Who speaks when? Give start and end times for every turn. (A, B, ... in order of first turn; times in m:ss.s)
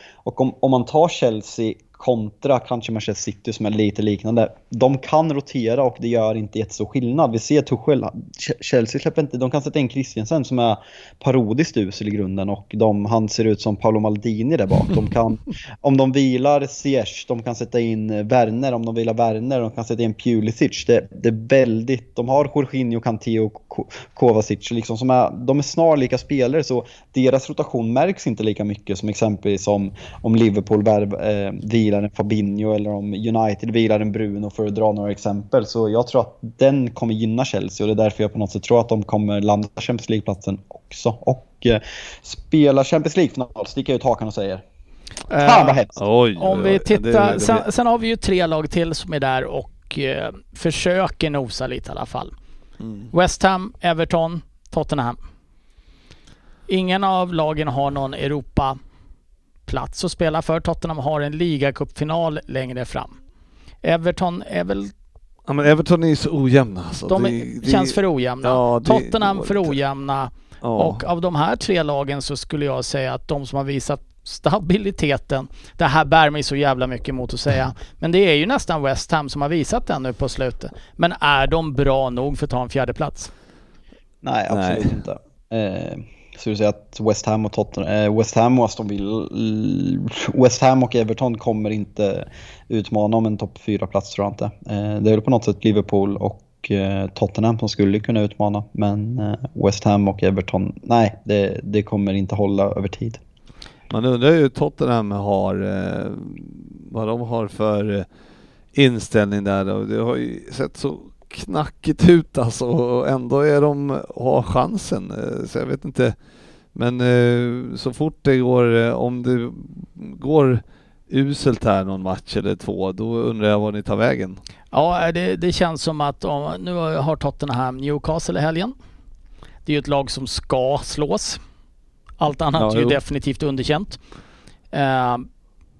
0:00.2-0:44.6 A
0:45.3-0:45.8 B
0:45.4-0:46.0 A
0:46.0-0:47.6 C
0:46.4-0:52.3 B
0:52.8-0:53.1 C
0:53.1-0:55.2 B
0:56.7-0:58.8 B
0:59.7-1:03.2 B
1:03.8-1:04.9 B
1:05.4-1:09.8 C
1:07.1-1:23.3 B
1:10.6-1:11.0 C
1:24.2-1:43.2 A
1:24.5-1:25.0 C
1:43.9-1:48.0 C
1:48.7-1:56.1 C
1:56.7-2:04.4 C
2:04.7-2:08.8 B
2:09.6-2:11.4 B
2:12.2-2:14.0 B
2:12.6-2:13.0 C
2:14.7-2:15.3 B